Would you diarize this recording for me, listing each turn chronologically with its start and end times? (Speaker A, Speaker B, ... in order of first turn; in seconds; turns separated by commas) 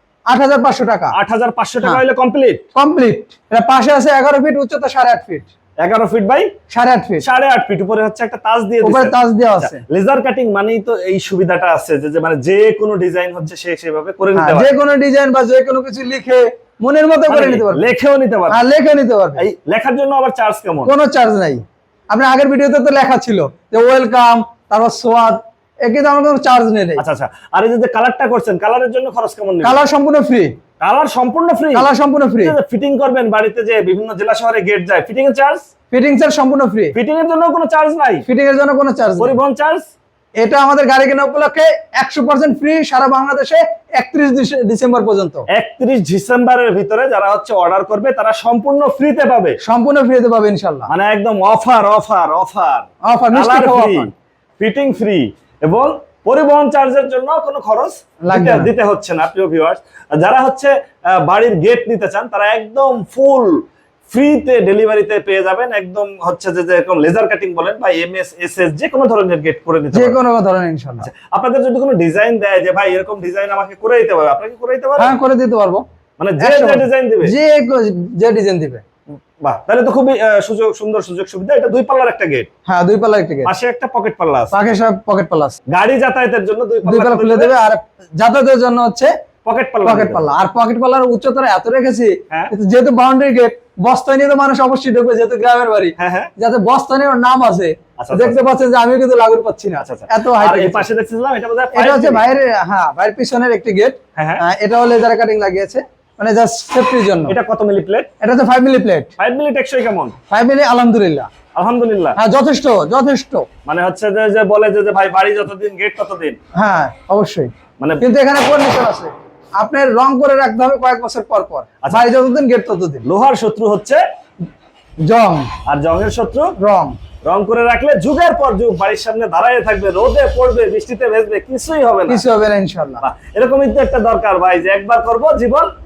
Speaker A: 0.3-1.1, Speaker B: 1.1-2.6, Speaker A: 2.8-5.5, Speaker B: 5.8-6.5, Speaker A: 6.7-7.3, Speaker B: 7.2-14.7, Speaker A: 8.8-9.8, Speaker A: 14.3-17.9, Speaker B: 17.3-18.6, Speaker A: 18.5-19.4, Speaker B: 19.4-20.9, Speaker A: 20.9-27.0, Speaker B: 27.0-29.8, Speaker A: 29.6-30.5, Speaker B: 30.8-31.9, Speaker A: 31.7-32.6, Speaker B: 32.4-35.7, Speaker A: 35.9-37.0, Speaker B: 36.9-38.2, Speaker A: 38.3-39.4, Speaker B: 39.2-39.9, Speaker A: 40.4-45.5, Speaker B: 45.5-49.6, Speaker A: 49.6-50.9, Speaker B: 50.9-70.2, Speaker A: 53.0-54.1, Speaker A: 58.3-58.7, Speaker A: 69.9-71.1, Speaker B: 71.0-75.2, Speaker A: 75.0-75.8, Speaker B: 76.2-77.3, Speaker A: 76.4-78.8, Speaker B: 79.4-82.5, Speaker A: 82.7-83.5, Speaker B: 83.4-84.5, Speaker A: 84.5-85.6, Speaker B: 85.7-87.5, Speaker A: 86.8-89.1, Speaker B: 89.4-90.2, Speaker A: 89.8-100.9, Speaker B: 96.0-96.3, Speaker B: 98.0-98.4, Speaker B: 99.8-102.2, Speaker A: 101.7-107.4, Speaker B: 104.2-104.4, Speaker B: 107.3-108.1, Speaker A: 108.2-109.1, Speaker B: 109.2-110.2, Speaker A: 110.3-111.3, Speaker B: 111.5-112.2, Speaker A: 112.2-113.5, Speaker B: 113.7-116.4, Speaker A: 116.5-123.0, Speaker B: 123.0-124.0, Speaker A: 125.0-125.5, Speaker B: 125.7-126.5, Speaker A: 126.6-127.0, Speaker B: 127.2-132.2, Speaker A: 132.1-133.0, Speaker B: 133.0-135.7